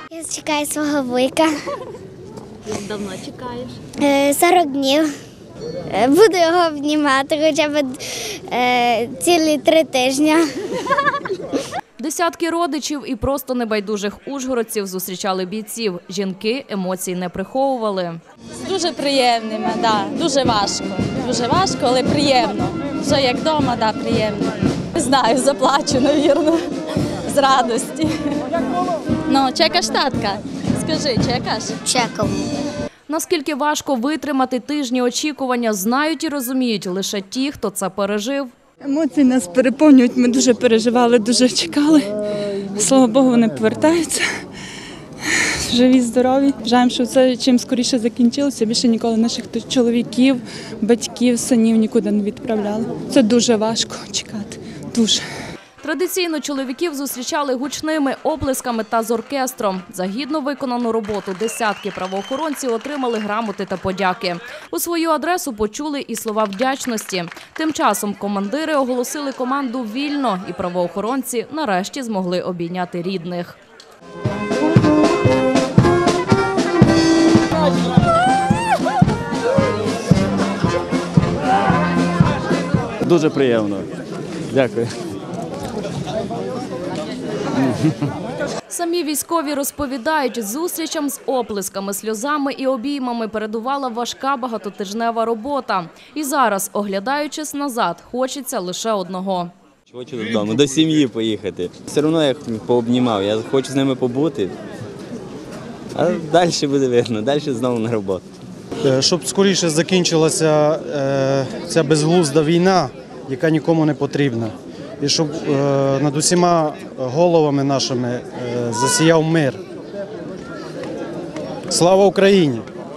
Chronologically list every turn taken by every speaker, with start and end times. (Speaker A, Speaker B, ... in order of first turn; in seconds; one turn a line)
Speaker A: 0.1-1.5
Speaker A: 4.0-5.1
Speaker A: 5.9-10.5
Speaker B: 12.0-18.2
Speaker C: 18.6-26.6
Speaker C: 27.2-28.1
Speaker C: 29.3-31.8
Speaker A: 31.8-32.4
Speaker B: 33.1-38.5
Speaker D: 38.8-42.1
Speaker D: 42.7-44.2
Speaker D: 45.3-55.2
Speaker B: 55.8-73.6
Speaker E: 83.0-83.9
Speaker E: 84.5-84.9
Speaker B: 88.7-99.5
Speaker E: 99.9-104.5
Speaker E: 105.9-108.2
Speaker F: 108.8-119.6
Speaker F: 121.7-122.7